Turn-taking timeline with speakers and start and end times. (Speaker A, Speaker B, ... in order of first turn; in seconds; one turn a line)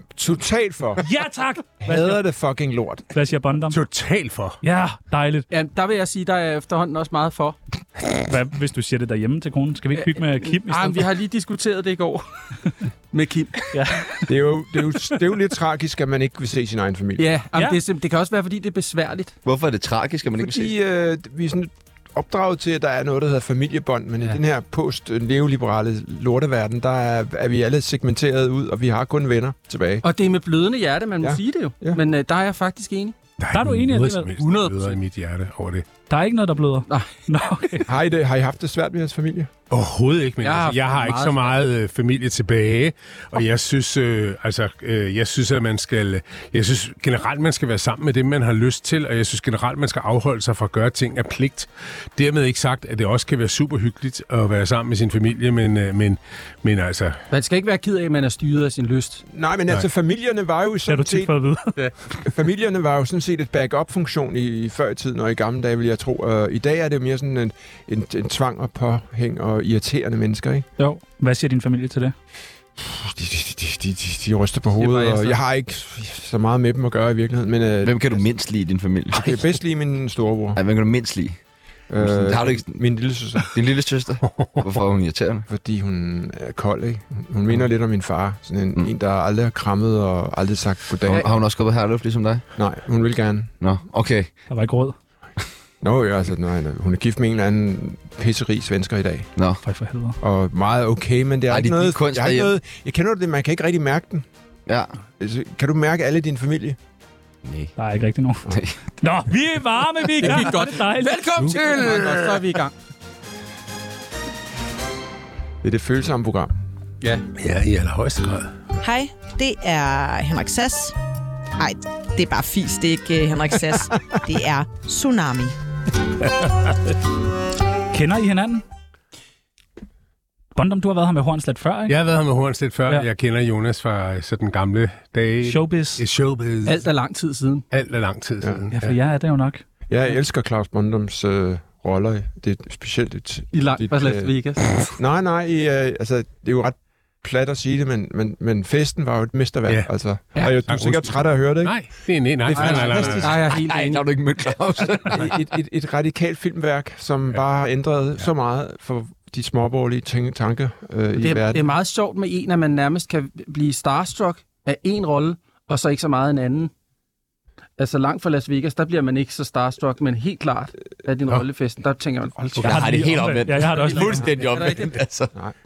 Speaker A: 0.1-1.0
Speaker B: 1.0-2.2
Speaker A: 1.8-3.0
Speaker B: 3.1-3.8
Speaker C: 3.7-4.6
Speaker B: 4.6-5.5
Speaker D: 5.5-7.6
Speaker B: 8.3-11.1
Speaker D: 10.0-12.2
Speaker D: 13.1-13.7
Speaker B: 13.7-14.3
Speaker A: 14.3-17.3
Speaker D: 17.2-19.3
Speaker E: 19.4-20.7
Speaker A: 20.4-30.0
Speaker D: 30.0-33.2
Speaker A: 31.2-32.0
Speaker C: 33.4-35.9
Speaker B: 33.5-34.3
Speaker D: 34.4-35.0
Speaker B: 36.1-37.9
Speaker A: 37.9-39.5
Speaker C: 39.7-57.2
Speaker D: 40.4-41.5
Speaker D: 57.3-59.2
Speaker A: 59.3-61.3
Speaker B: 60.9-61.8
Speaker A: 62.2-70.7
Speaker B: 70.8-72.1
Speaker A: 72.8-78.2
Speaker D: 74.8-75.4
Speaker E: 77.8-79.5
Speaker A: 79.1-80.6
Speaker E: 80.5-81.4
Speaker A: 81.9-83.5
Speaker E: 82.0-82.8
Speaker E: 83.4-85.5
Speaker C: 84.2-84.7
Speaker A: 85.5-91.3
Speaker E: 91.0-92.5
Speaker A: 92.5-93.5
Speaker E: 93.6-94.3
Speaker B: 94.5-95.0
Speaker A: 95.8-99.3
Speaker B: 99.6-100.2
Speaker A: 100.2-104.2
Speaker E: 101.5-102.5
Speaker E: 104.7-104.9
Speaker A: 105.2-106.8
Speaker E: 107.4-107.7
Speaker B: 107.8-111.2
Speaker E: 108.5-108.7
Speaker D: 110.2-112.7
Speaker E: 111.0-112.1
Speaker C: 111.4-112.3
Speaker A: 115.6-116.5
Speaker C: 117.4-118.5
Speaker F: 118.8-121.0
Speaker F: 121.6-125.5
Speaker C: 126.4-126.6
Speaker B: 127.9-128.6
Speaker B: 130.5-131.9
Speaker C: 131.9-136.8
Speaker B: 135.4-136.0
Speaker D: 136.6-137.6
Speaker C: 137.7-138.9
Speaker B: 138.7-139.6
Speaker A: 139.9-144.3
Speaker D: 143.5-144.7
Speaker A: 144.9-151.9
Speaker C: 150.4-153.4
Speaker A: 152.4-153.4
Speaker D: 152.5-154.0
Speaker E: 153.4-155.4
Speaker A: 155.1-161.7
Speaker D: 161.2-166.7
Speaker D: 167.8-173.0
Speaker E: 172.6-175.3
Speaker B: 172.6-174.3
Speaker D: 173.7-174.9